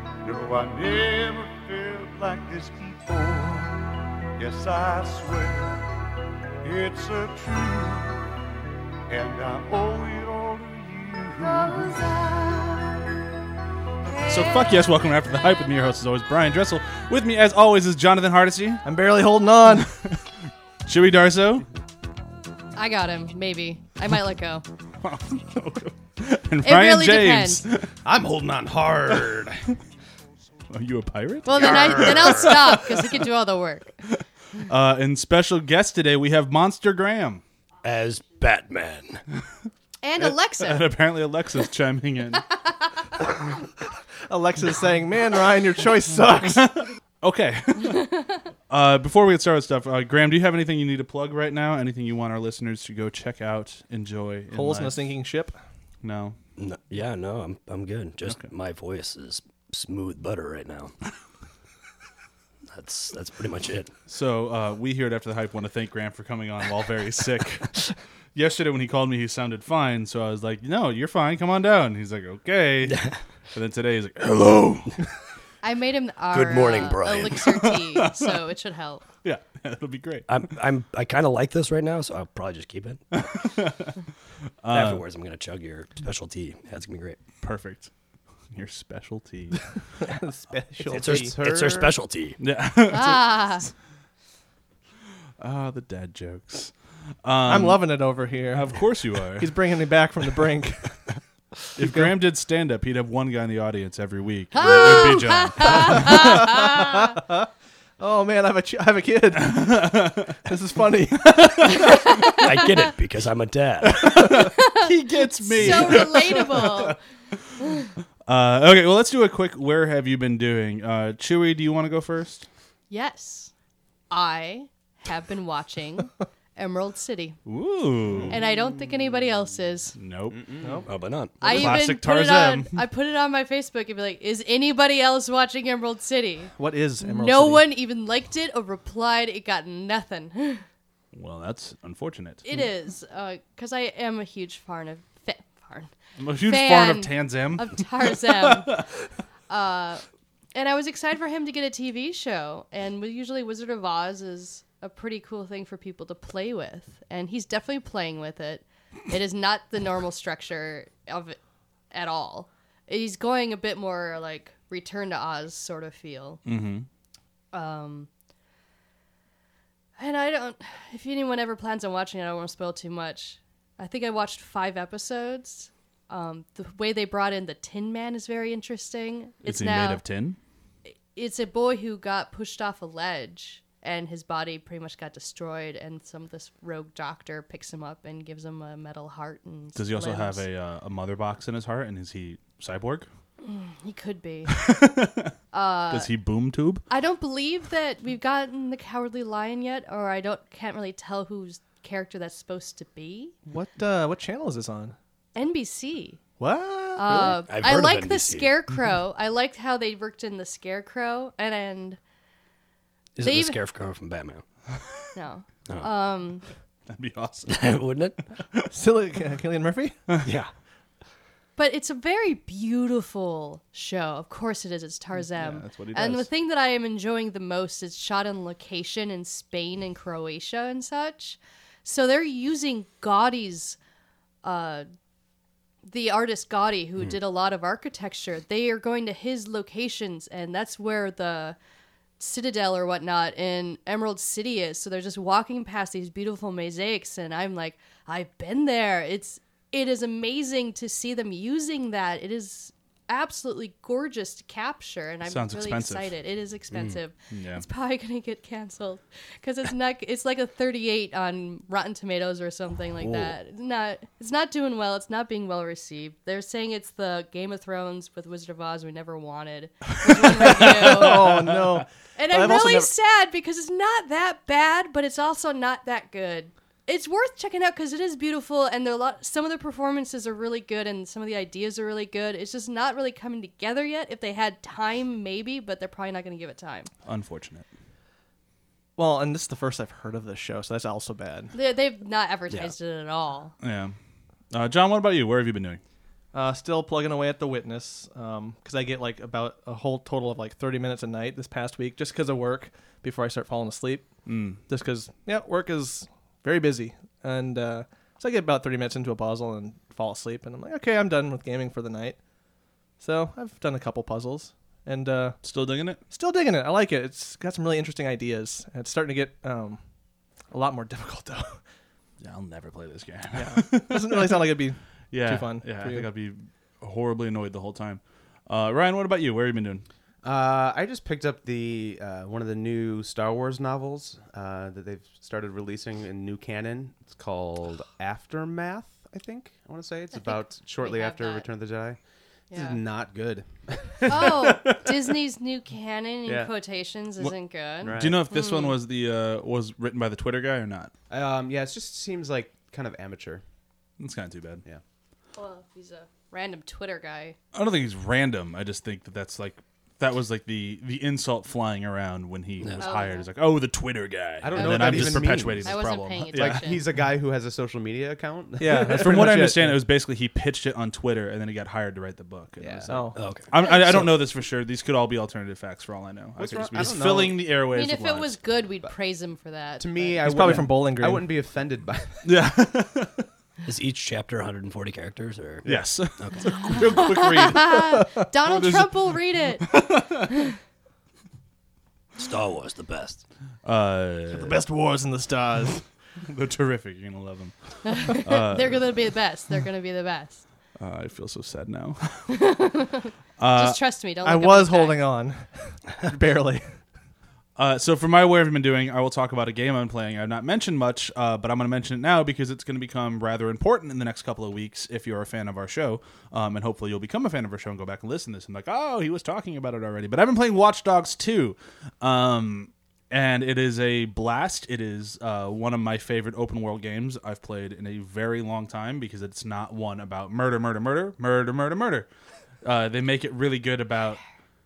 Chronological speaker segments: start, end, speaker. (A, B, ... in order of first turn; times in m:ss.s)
0:00.2-0:05.9 A
0:06.6-0:08.3 A
0:09.1-0:12.2 A
0:11.8-0:12.8 B
0:14.3-0:18.8 C
0:18.8-0:19.9 D
0:19.8-0:20.2 C
0:20.8-0:21.6 C
0:22.8-0:24.6 B
0:25.0-0:27.9 C
0:26.6-0:27.6 B
0:28.0-0:29.6 E
0:30.7-0:33.3 C
0:31.4-0:33.9 B
0:31.6-0:32.1 E
0:34.1-0:37.4 C
0:37.8-0:39.2 F
0:40.0-0:40.8 B
0:40.2-0:42.5 C
0:44.3-0:46.8 D
0:46.4-0:48.2 C
0:48.7-0:55.0 C
0:54.5-0:55.6 D
0:56.0-0:56.4 C
0:56.6-1:00.9 F
1:02.7-1:03.9 F
1:04.1-1:07.8 C
1:08.3-1:15.2 C
1:12.8-1:13.2 F
1:15.6-1:19.0 B
1:16.3-1:17.4 F
1:17.4-1:18.4 C
1:19.2-1:20.3 C
1:20.3-1:23.3 F
1:23.1-1:23.9 C
1:24.6-1:25.0 C
1:24.7-1:27.2 F
1:27.4-1:27.9 C
1:28.5-1:29.7 C
1:30.0-1:31.4 D
1:30.9-1:31.9 E
1:30.9-1:32.4 F
1:32.4-1:33.7 C
1:32.9-1:33.6 B
1:35.4-1:36.7 C
1:37.2-1:37.8 C
1:37.4-1:41.0 D
1:38.6-1:39.6 C
1:41.8-1:42.1 D
1:41.8-1:46.5 C
1:44.5-1:47.1 B
1:46.2-1:47.5 D
1:48.0-1:49.8 D
1:49.4-1:50.4 C
1:50.4-1:51.5 D
1:51.2-1:52.0 C
1:51.8-1:52.4 B
1:52.2-1:54.1 F
1:53.9-1:56.9 C
1:54.5-1:57.0 B
1:55.6-1:56.2 F
1:58.2-2:02.5 C
2:02.9-2:03.5 B
2:04.1-2:07.4 B
2:07.4-2:08.4 C
2:08.3-2:09.9 B
2:10.0-2:10.4 C
2:10.3-2:10.8 E
2:10.6-2:10.9 D
2:10.9-2:11.7 F
2:11.4-2:20.6 B
2:11.4-2:12.8 C
2:16.6-2:17.6 D
2:21.1-2:22.4 C
2:22.4-2:28.8 B
2:26.2-2:28.8 C
2:29.5-2:41.4 B
2:41.9-2:46.4 B
2:46.4-2:46.9 C
2:47.5-2:48.1 B
2:50.0-3:00.0 B
2:59.4-3:00.4 C
3:01.1-3:10.4 B
3:09.8-3:13.0 C
3:13.4-3:14.6 B
3:14.5-3:15.3 C
3:15.5-3:16.1 B
3:15.9-3:16.8 C
3:16.9-3:23.4 B
3:23.5-3:25.0 D
3:25.3-3:26.2 B
3:26.4-3:27.4 D
3:26.9-3:32.0 B
3:27.1-3:28.5 F
3:33.2-3:34.4 F
3:33.2-3:33.6 B
3:35.1-3:36.4 B
3:36.9-3:37.6 C
3:37.5-3:38.2 F
3:38.7-3:40.0 D
3:40.2-3:40.5 F
3:41.6-3:53.8 B
3:45.3-3:46.3 C
3:54.4-3:54.9 B
3:55.8-4:01.6 B
4:02.2-4:31.2 B
4:15.3-4:16.1 C
4:16.7-4:17.0 F
4:17.3-4:17.6 C
4:30.1-4:32.7 C
4:30.6-4:32.9 D
4:32.2-4:46.9 B
4:47.0-4:47.6 C
4:49.0-4:51.5 D
4:51.5-4:53.5 B
4:53.6-4:53.9 C
4:54.5-4:55.8 C
4:56.3-5:04.1 D
5:04.2-5:04.6 C
5:04.7-5:12.2 D
5:13.0-5:15.4 D
5:15.4-5:16.0 C
5:16.1-5:19.8 D
5:20.5-5:21.6 D
5:22.2-5:24.5 C
5:23.3-5:26.1 D
5:25.1-5:29.8 C
5:30.2-5:42.0 E
5:40.1-5:41.5 B
5:42.5-5:42.8 B
5:42.5-5:44.4 E
5:44.1-5:48.8 B
5:46.2-5:46.5 E
5:47.8-5:48.2 E
5:47.8-5:50.9 C
5:51.1-5:53.4 E
5:54.0-5:54.6 C
5:55.4-5:57.4 B
5:57.5-6:06.7 C
6:02.6-6:02.8 F
6:02.8-6:03.3 B
6:04.4-6:09.2 E
6:04.9-6:05.2 F
6:05.6-6:06.8 B
6:08.6-6:09.8 D
6:08.9-6:18.4 C
6:12.6-6:12.9 E
6:12.9-6:13.2 D
6:13.2-6:13.5 F
6:16.4-6:17.4 E
6:17.7-6:20.0 B
6:19.8-6:22.2 E
6:20.2-6:21.3 D
6:22.2-6:23.2 C
6:23.6-6:26.7 F
6:25.6-6:27.8 C
6:26.6-6:29.7 B
6:28.4-6:30.3 C
6:32.2-6:33.2 F
6:33.6-6:34.6 C
6:34.3-6:35.8 D
6:36.2-6:38.8 C
6:37.9-6:40.4 B
6:40.8-6:42.4 C
6:42.3-6:45.0 B
6:43.4-6:43.8 C
6:44.2-6:46.7 D
6:47.6-7:12.1 C
7:12.6-7:14.2 C